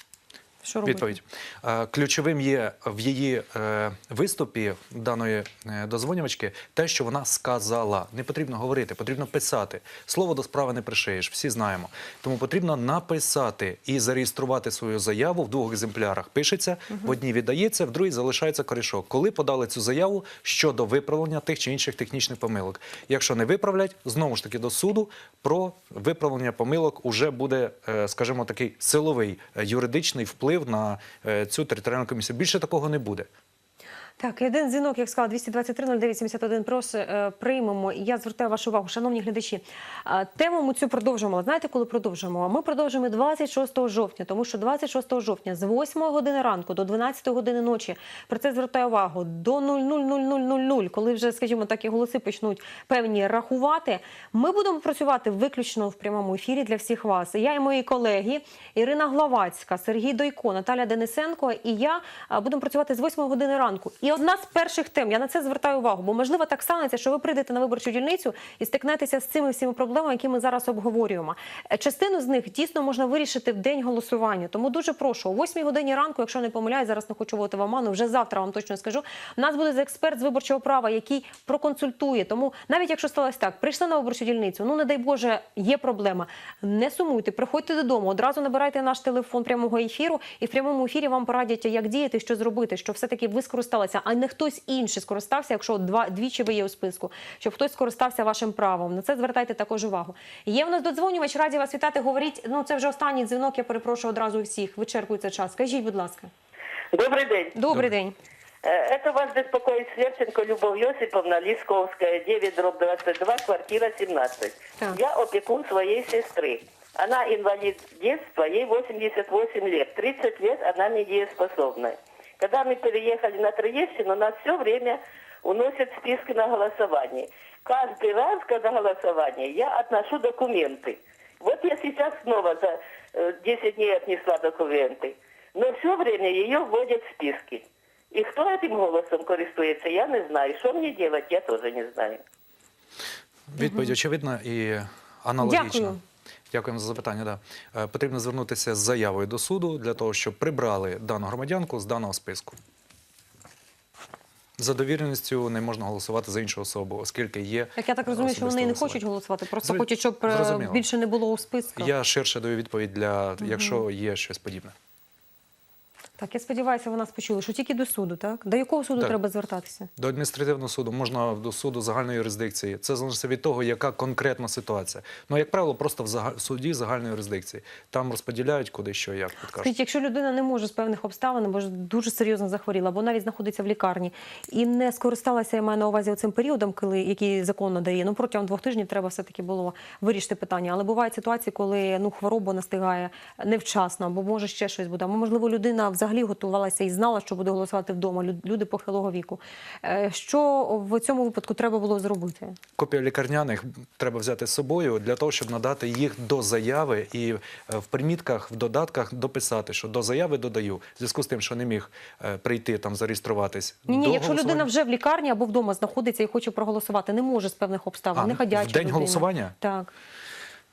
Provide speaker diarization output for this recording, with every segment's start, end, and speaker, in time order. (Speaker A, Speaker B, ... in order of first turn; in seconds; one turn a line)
Speaker A: 0.6-1.1
Speaker B: 0.8-33.3
Speaker A: 34.2-106.3
Speaker C: 106.9-107.5
Speaker A: 107.5-108.2
Speaker C: 108.6-142.2
Speaker B: 143.5-146.0
Speaker A: 143.6-143.9
Speaker A: 145.4-146.0
Speaker B: 146.5-152.6
Speaker B: 154.6-159.0
Speaker A: 157.8-161.9
Speaker B: 159.6-160.8
Speaker B: 161.8-164.7
Speaker A: 163.4-163.8
Speaker A: 166.2-169.9
Speaker B: 170.0-179.7
Speaker A: 179.6-202.6
Speaker B: 202.8-214.7
Speaker A: 213.9-219.9
Speaker B: 218.1-219.6